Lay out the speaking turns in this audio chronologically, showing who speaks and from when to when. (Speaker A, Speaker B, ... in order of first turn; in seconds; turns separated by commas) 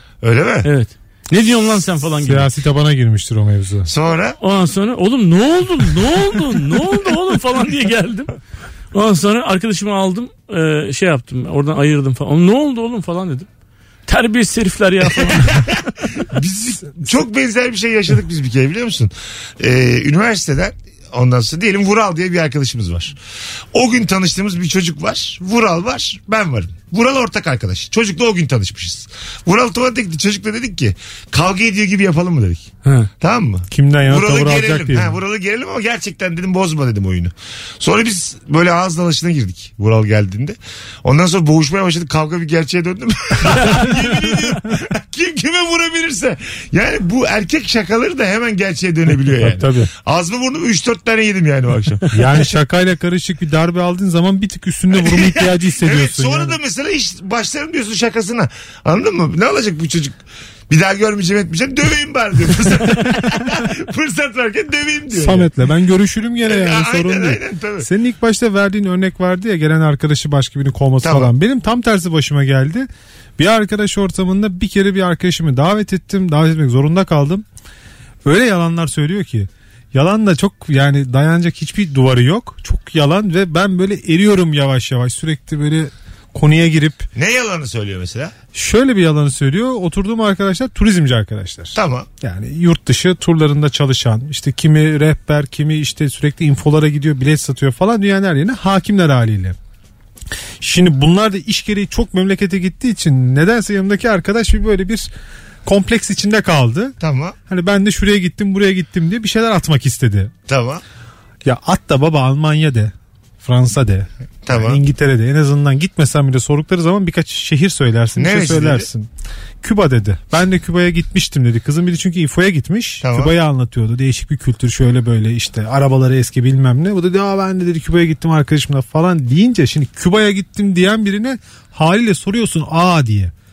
Speaker A: 0.2-0.7, Speaker B: 0.6-2.5, Speaker C: 2.2-3.9, Speaker A: 3.9-4.4, Speaker B: 4.4-8.3, Speaker B: 8.9-13.5, Speaker B: 14.1-15.7, Speaker A: 15.4-23.1, Speaker A: 23.7-32.7, Speaker B: 32.8-33.1, Speaker A: 33.2-52.5, Speaker C: 33.7-35.2, Speaker B: 43.5-44.4, Speaker C: 49.3-49.9, Speaker C: 52.1-56.6, Speaker A: 54.9-60.2, Speaker A: 60.7-65.5, Speaker C: 65.1-77.5, Speaker A: 66.5-67.9, Speaker A: 71.0-71.3, Speaker C: 78.2-87.1, Speaker A: 87.2-88.3, Speaker C: 88.5-99.6, Speaker A: 91.8-92.1, Speaker C: 100.6-105.1, Speaker C: 105.7-107.0, Speaker A: 107.0-107.4, Speaker C: 107.5-110.3, Speaker A: 110.5-110.8, Speaker C: 111.5-119.1, Speaker A: 114.5-114.8, Speaker A: 118.2-118.9, Speaker C: 119.6-133.3, Speaker A: 123.0-123.3